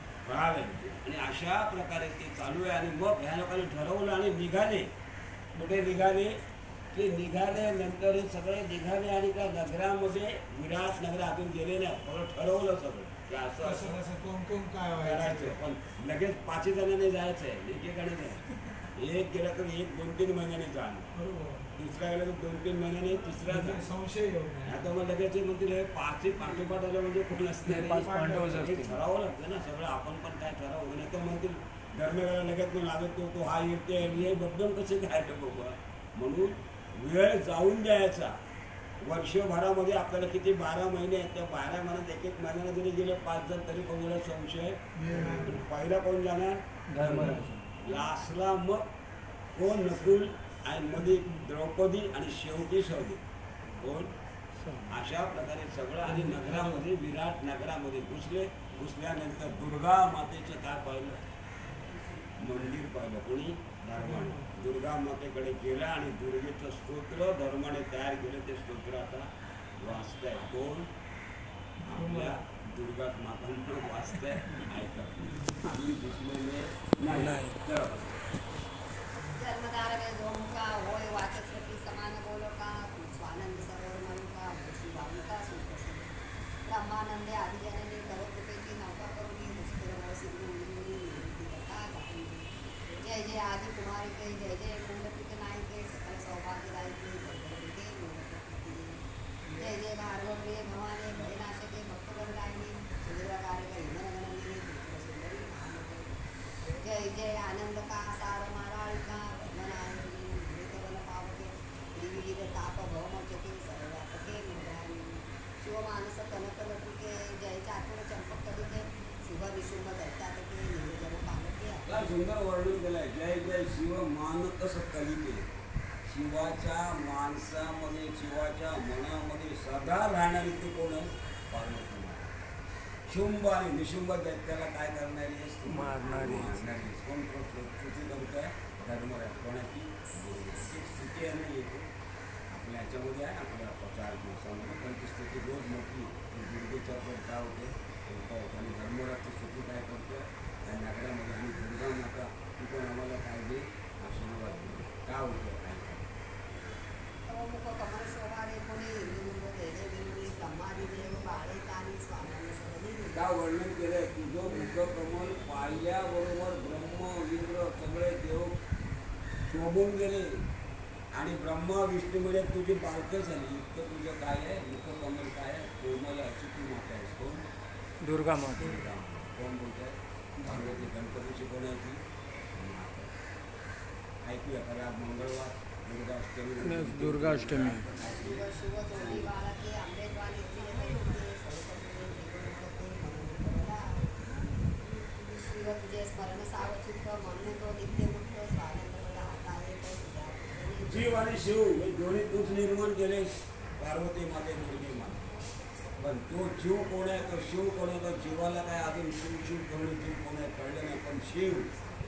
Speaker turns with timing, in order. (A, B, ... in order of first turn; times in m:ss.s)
0:00.2-0:04.9 A
0:05.6-0:06.4 A
0:06.9-0:14.0 A
0:13.6-0:15.6 B
0:15.0-0:18.4 A
0:19.0-0:21.1 A
0:21.1-0:21.7 B
0:21.8-0:23.8 A
0:23.4-0:24.9 B
0:24.6-0:38.4 A
0:27.7-0:29.0 C
0:28.0-0:28.6 B
0:39.0-0:48.9 A
0:45.0-0:45.7 B
0:46.9-0:47.7 C
0:49.5-0:53.2 A
0:53.8-0:54.1 A
0:54.9-1:01.2 A
0:56.3-0:56.6 B
1:02.4-1:09.3 A
1:04.0-1:04.4 B
1:09.8-1:10.9 A
1:11.8-1:12.4 B
1:11.8-1:18.1 A
1:17.0-1:17.6 C
1:19.3-1:32.5 D
1:33.0-1:39.0 D
1:39.5-1:46.1 D
1:46.8-2:02.0 D
2:01.9-2:05.5 A
2:06.0-2:12.3 A
2:13.1-2:21.9 A
2:15.7-2:16.6 C
2:22.5-2:36.1 A
2:37.3-2:43.2 D
2:43.1-2:48.6 A
2:49.4-2:50.4 A
2:51.1-2:57.4 A
2:58.0-2:58.8 C
2:58.6-3:02.0 A
3:02.5-3:03.1 A
3:04.2-3:09.3 A
3:06.6-3:07.8 C
3:08.0-3:14.1 D
3:15.2-3:21.3 D
3:20.9-3:25.2 A
3:26.0-3:31.7 A